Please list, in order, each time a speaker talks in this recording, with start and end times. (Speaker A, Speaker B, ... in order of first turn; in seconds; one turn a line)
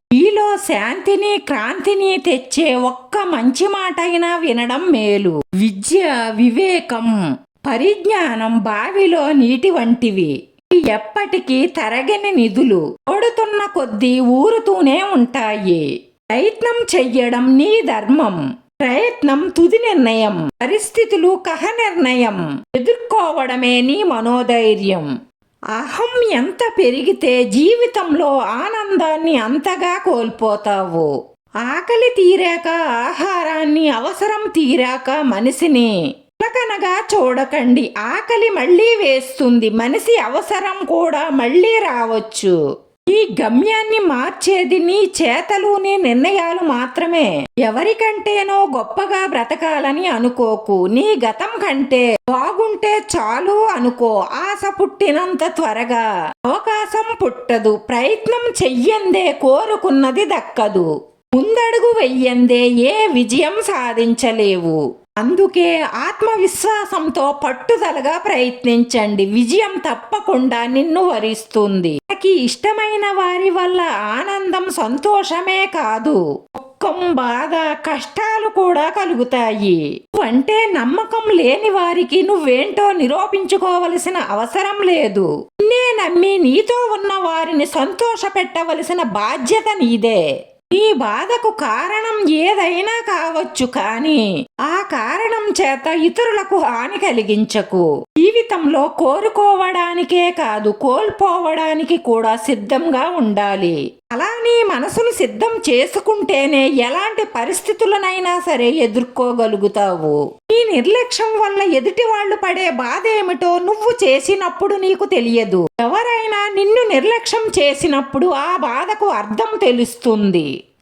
Speaker A: 0.1-25.1
Speaker A: 25.7-31.1
Speaker A: 31.6-42.5
Speaker A: 43.1-90.2
Speaker A: 90.7-120.5